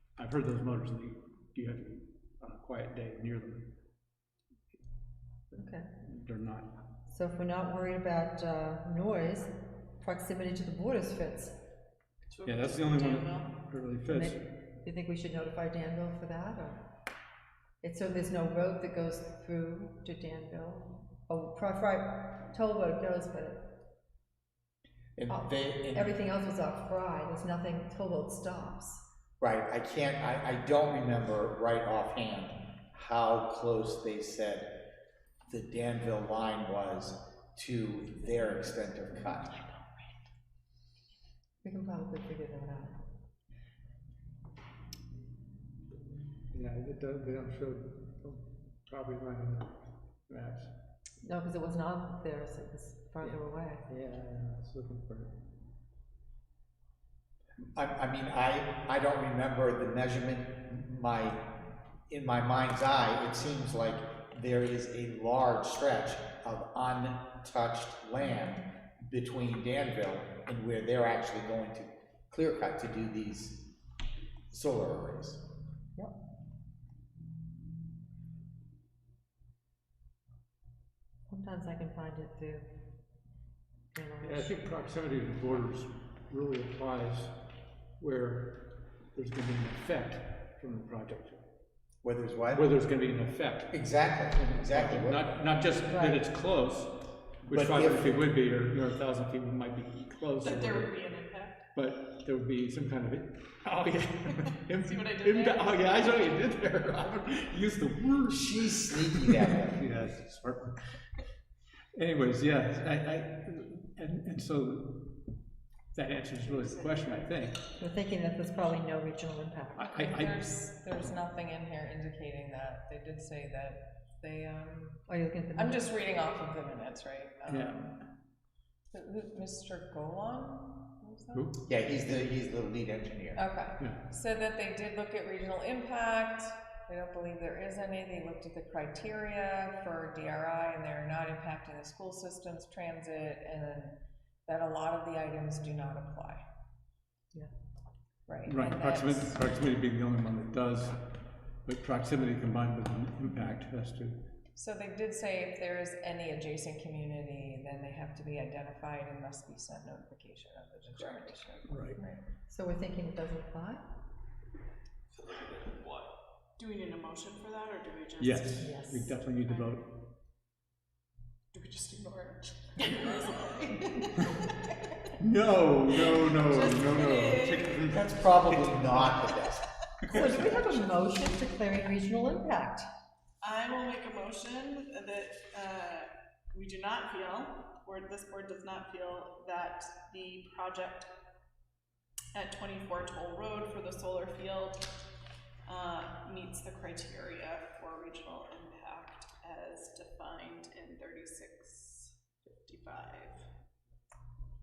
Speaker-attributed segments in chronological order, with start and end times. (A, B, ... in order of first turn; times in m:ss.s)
0:00.2-0:03.7 A
0:05.5-0:06.7 A
0:05.5-0:05.8 B
0:07.1-0:11.5 B
0:12.3-0:13.5 C
0:12.4-0:14.4 A
0:14.0-0:16.8 B
0:17.8-0:23.8 B
0:25.2-0:26.1 D
0:25.3-0:29.0 B
0:29.4-0:34.7 D
0:35.5-0:39.6 D
0:41.6-0:43.0 B
0:46.5-0:50.7 A
0:51.2-0:53.8 B
0:53.2-0:55.4 A
0:57.7-1:01.4 D
1:02.1-1:13.6 D
1:14.5-1:15.4 D
1:21.3-1:22.7 B
1:23.9-1:24.6 B
1:24.2-1:27.4 A
1:28.0-1:31.4 A
1:32.0-1:32.6 D
1:32.5-1:33.7 A
1:33.7-1:35.2 D
1:34.4-1:40.9 A
1:35.8-1:36.2 B
1:37.5-1:38.1 D
1:40.4-1:41.7 C
1:41.7-1:50.8 A
1:44.7-1:46.2 C
1:48.3-1:49.8 D
1:51.9-1:55.2 A
1:55.9-1:57.6 A
1:56.5-1:57.2 C
1:57.8-1:59.9 B
1:59.8-2:00.4 A
1:59.9-2:05.0 E
2:05.1-2:05.9 B
2:05.6-2:08.0 E
2:07.5-2:07.8 A
2:08.9-2:11.5 E
2:11.3-2:11.6 A
2:11.6-2:13.4 D
2:13.4-2:26.4 E
2:28.3-2:29.4 E
2:28.4-2:31.0 A
2:31.6-2:34.2 A
2:34.6-2:42.2 E
2:41.7-2:42.0 A
2:42.5-2:43.8 B
2:46.6-2:48.8 C
2:48.2-2:50.0 A
2:48.6-2:49.2 B
2:51.5-2:55.0 C
2:55.2-2:59.1 A
2:55.8-2:57.9 C
2:57.9-2:59.6 D
3:00.0-3:00.6 A
3:00.0-3:02.9 B
3:03.4-3:11.1 C
3:12.3-3:14.8 C
3:15.6-3:23.5 C